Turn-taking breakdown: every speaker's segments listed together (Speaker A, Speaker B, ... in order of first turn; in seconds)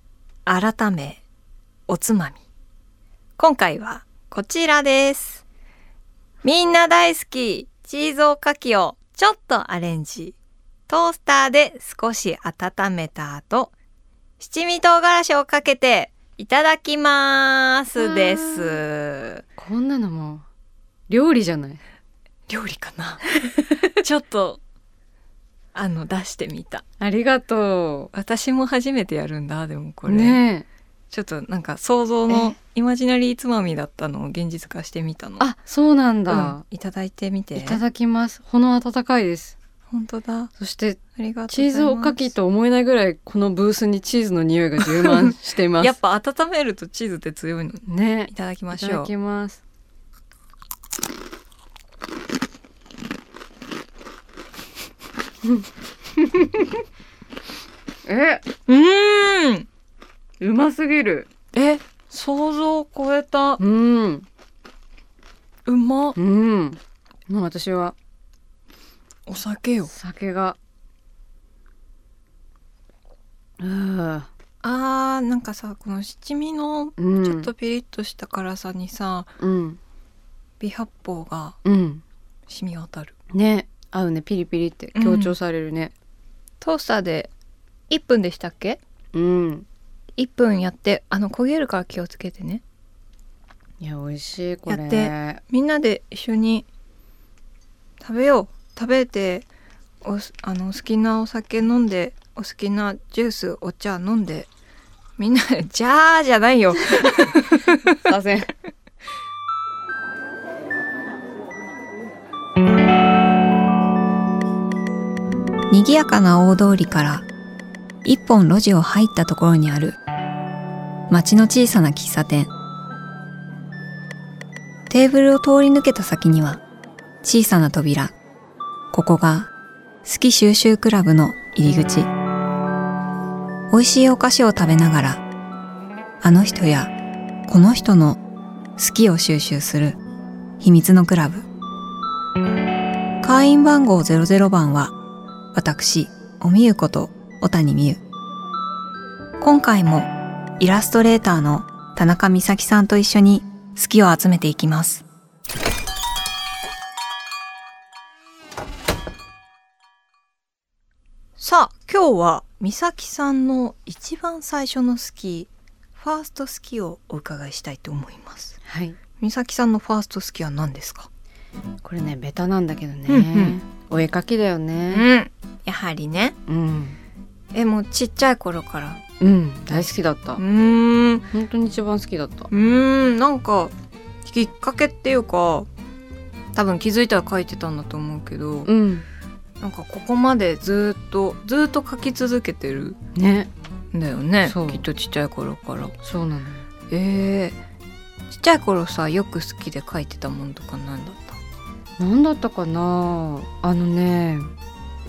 Speaker A: 0.5-1.2, 1.9-2.4, 3.4-5.4, 6.4-10.3, 10.9-13.7, 14.4-19.4, 22.5-24.6, 25.7-26.8, 28.1-30.4, 31.1-35.5, 36.3-37.8, 39.9-40.5, 41.1-42.2, 45.0-49.1, 58.7-59.7, 61.5-63.6, 65.7-66.2, 69.3-69.9, 74.6-79.3, 80.6-81.6, 82.5-83.1, 84.9-85.3, 86.6-87.3, 87.9-88.8, 90.2-92.6, 94.7-96.7, 98.0-99.5, 100.0-104.5, 105.2-108.1, 115.7-117.3, 118.0-120.0, 121.1-122.5, 124.9-126.6, 127.2-128.1, 128.9-129.5, 130.0-132.1, 133.7-135.2, 136.2-136.9, 137.5-138.2, 138.8-140.0, 140.6-141.4, 143.2-144.9, 145.5-148.0, 149.4-155.1, 161.4-168.6, 169.2-171.1, 173.1-173.6, 174.9-176.3, 177.5-179.0, 180.4-181.3, 182.5-183.7, 184.2-185.7, 186.5-188.7, 189.6-193.0, 193.9-195.9, 196.9-197.6, 198.3-201.4
Speaker B: 17.9-18.8, 19.6-20.4, 21.1-21.8, 27.0-28.1, 30.1-30.6, 32.3-32.5, 35.4-36.6, 37.5-39.5, 40.6-45.9, 47.9-49.6, 55.4-56.8, 58.0-58.4, 60.4-61.3, 63.6-64.2, 66.2-68.0, 69.9-70.6, 73.6-74.3, 77.0-77.5, 79.4-79.8, 81.6-82.0, 83.3-85.9, 89.1-89.7, 93.8-95.4, 108.0-108.5, 168.7-169.0, 171.8-175.1, 176.5-177.0, 179.2-180.4, 181.3-182.5, 188.7-189.1, 193.1-193.5, 194.4-194.8, 196.0-196.7, 202.0-204.5